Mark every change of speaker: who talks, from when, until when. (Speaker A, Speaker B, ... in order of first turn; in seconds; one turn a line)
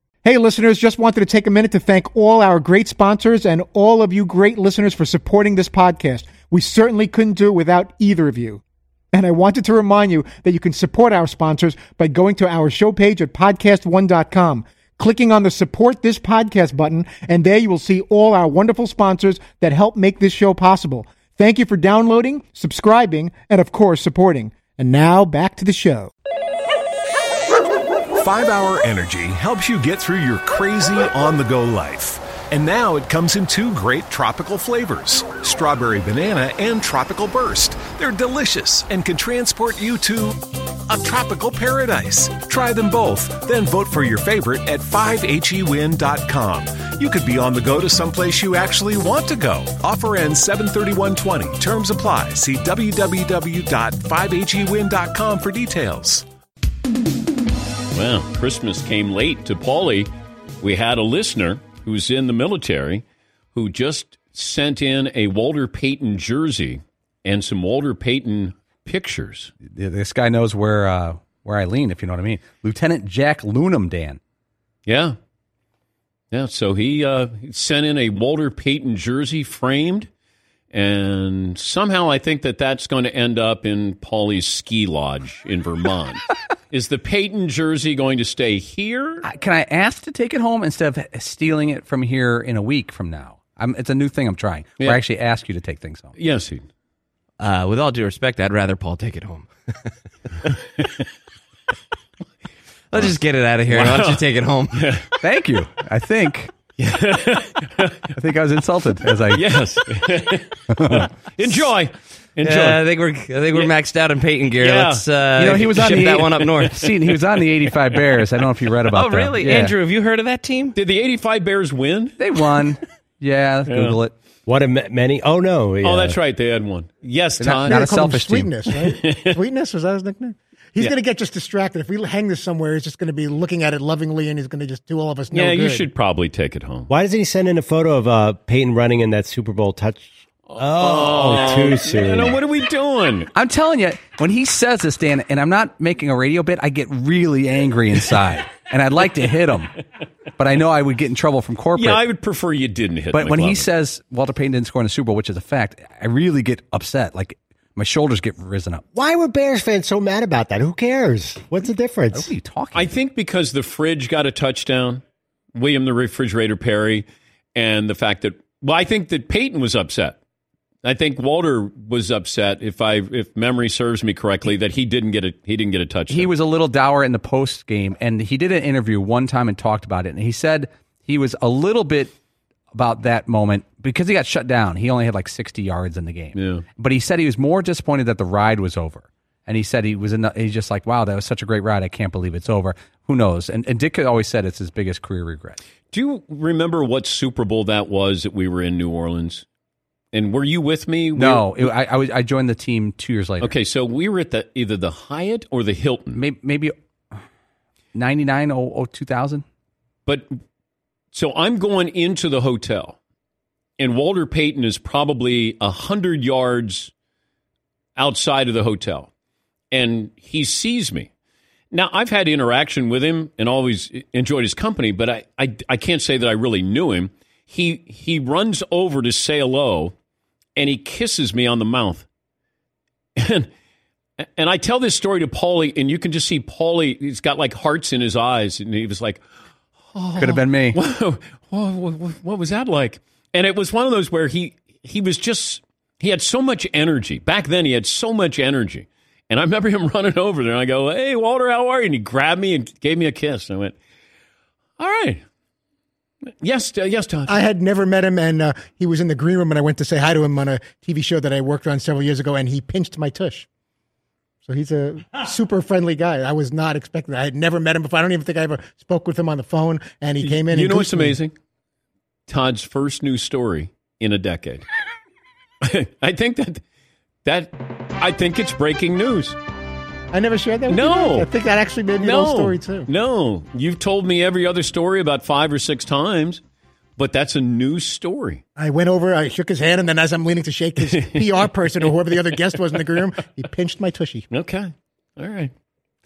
Speaker A: 0.2-26.1
Speaker B: 28.2-56.2
Speaker C: 57.9-69.5
Speaker D: 69.6-74.2
Speaker C: 74.8-75.2
Speaker C: 76.3-80.1
Speaker C: 80.7-89.2
Speaker D: 89.2-96.1
Speaker C: 96.2-96.6
Speaker E: 97.4-99.9
Speaker E: 102.9-104.8
Speaker C: 103.7-105.1
Speaker D: 105.2-106.5
Speaker C: 106.8-108.1
Speaker D: 108.2-109.4
Speaker C: 109.3-112.8
Speaker D: 110.7-111.1
Speaker E: 112.4-116.9
Speaker C: 114.6-115.0
Speaker D: 115.4-119.7
Speaker E: 118.9-120.7
Speaker C: 120.7-122.2
Speaker D: 122.2-124.1
Speaker C: 123.7-124.0
Speaker F: 124.5-126.2
Speaker C: 125.8-127.9
Speaker D: 127.4-128.5
Speaker A: 127.6-135.9
Speaker C: 128.7-129.4
Speaker C: 135.3-136.9
Speaker F: 136.9-142.4
Speaker C: 140.5-143.3
Speaker D: 143.3-149.7
Speaker D: 150.4-152.0
Speaker C: 151.8-153.7
Speaker D: 153.1-158.8
Speaker F: 158.9-162.3
Speaker D: 162.1-162.9
Speaker C: 162.7-165.0
Speaker C: 165.5-170.2
Speaker C: 170.8-176.3
Speaker D: 176.1-182.1
Speaker D: 182.7-195.6
Speaker C: 186.3-186.6
Speaker C: 195.9-199.4
Speaker C: 200.1-201.7
Speaker D: 201.2-203.5
Speaker C: 203.4-206.2
Speaker D: 206.1-206.7
Speaker D: 207.9-209.4
Speaker C: 210.1-210.4
Speaker C: 211.1-213.0
Speaker C: 213.8-216.9
Speaker C: 218.0-219.1
Speaker C: 219.7-221.1
Speaker C: 221.7-229.9
Speaker C: 230.6-232.1
Speaker C: 233.2-233.5
Speaker C: 234.4-239.2
Speaker C: 239.9-253.8
Speaker D: 240.2-240.8
Speaker C: 254.8-255.2
Speaker C: 256.4-257.3
Speaker A: 257.3-263.4
Speaker A: 264.4-271.2
Speaker C: 270.2-271.3
Speaker C: 272.3-274.6
Speaker C: 275.6-276.6
Speaker C: 277.2-279.4
Speaker A: 280.1-282.9
Speaker C: 280.7-281.3
Speaker C: 282.0-286.4
Speaker C: 287.0-288.4
Speaker A: 288.6-294.2
Speaker C: 290.9-291.5
Speaker C: 294.3-295.5